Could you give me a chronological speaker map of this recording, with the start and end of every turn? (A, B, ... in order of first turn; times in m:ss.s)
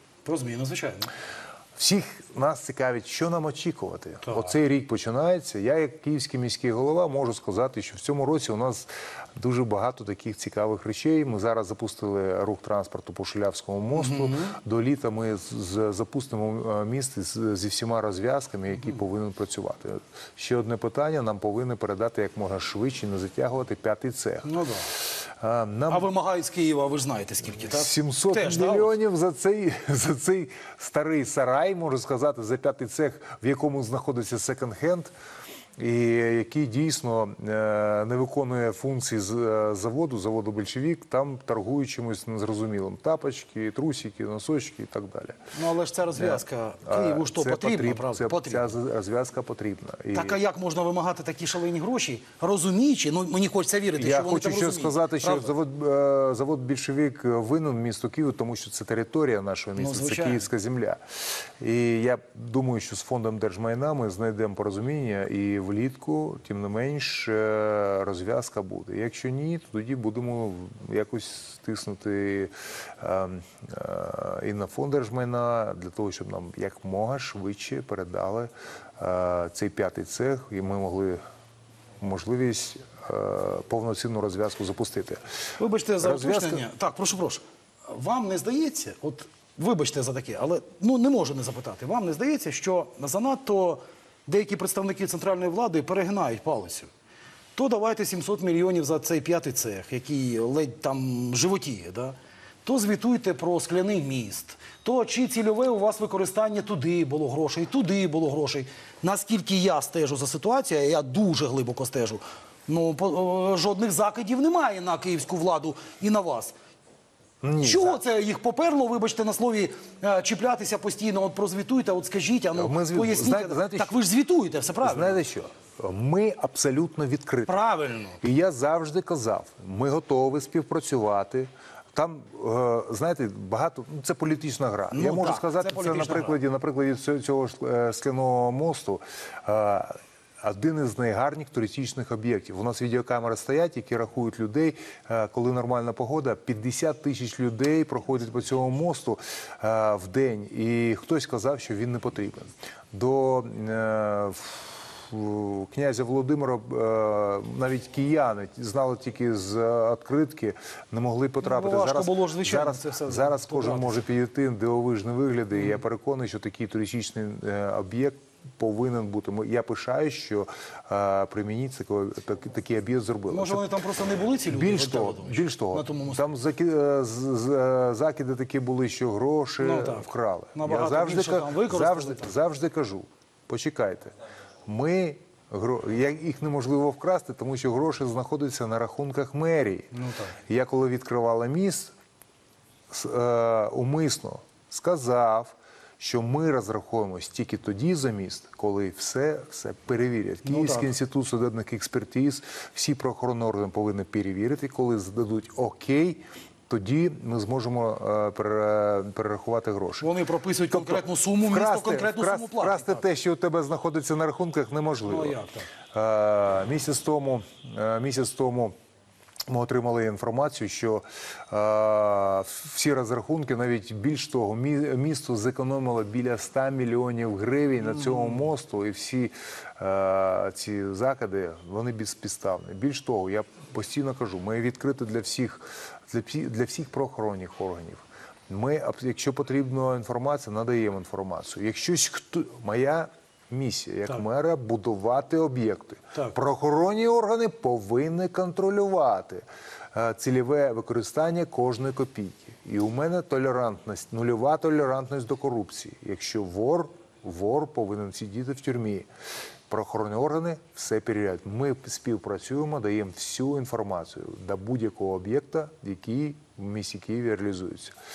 0:00.2-0:01.1 A
0:01.8-0:26.1 B
0:04.2-0:04.5 A
0:13.9-0:14.6 A
0:24.4-0:24.9 A
0:25.9-0:28.9 A
0:27.6-0:35.1 B
0:35.8-0:45.4 B
0:45.5-0:48.8 A
0:46.2-0:50.4 B
0:50.1-0:55.5 A
0:54.0-1:01.0 B
0:59.8-1:00.5 A
1:01.6-1:21.2 B
1:22.0-1:25.2 B
1:25.6-1:36.9 A
1:26.0-1:26.6 B
1:37.6-1:56.5 A
1:57.4-1:58.0 B
1:57.6-2:05.2 A
2:02.6-2:04.0 B
2:04.8-2:07.5 B
2:07.5-2:08.2 A
2:08.2-2:53.7 B
2:14.9-2:16.4 A
2:41.4-2:44.0 A
2:53.3-2:56.2 A
2:54.5-3:04.2 B
2:59.6-3:02.3 A
3:04.7-3:09.9 B
3:09.9-3:10.4 A
3:10.5-3:11.9 B
3:12.9-3:30.1 B
3:20.4-3:20.9 A
3:30.0-3:33.0 A
3:30.7-3:35.4 B
3:35.1-3:35.7 A
3:35.9-3:38.7 B
3:39.5-4:19.1 B
4:19.7-4:28.0 B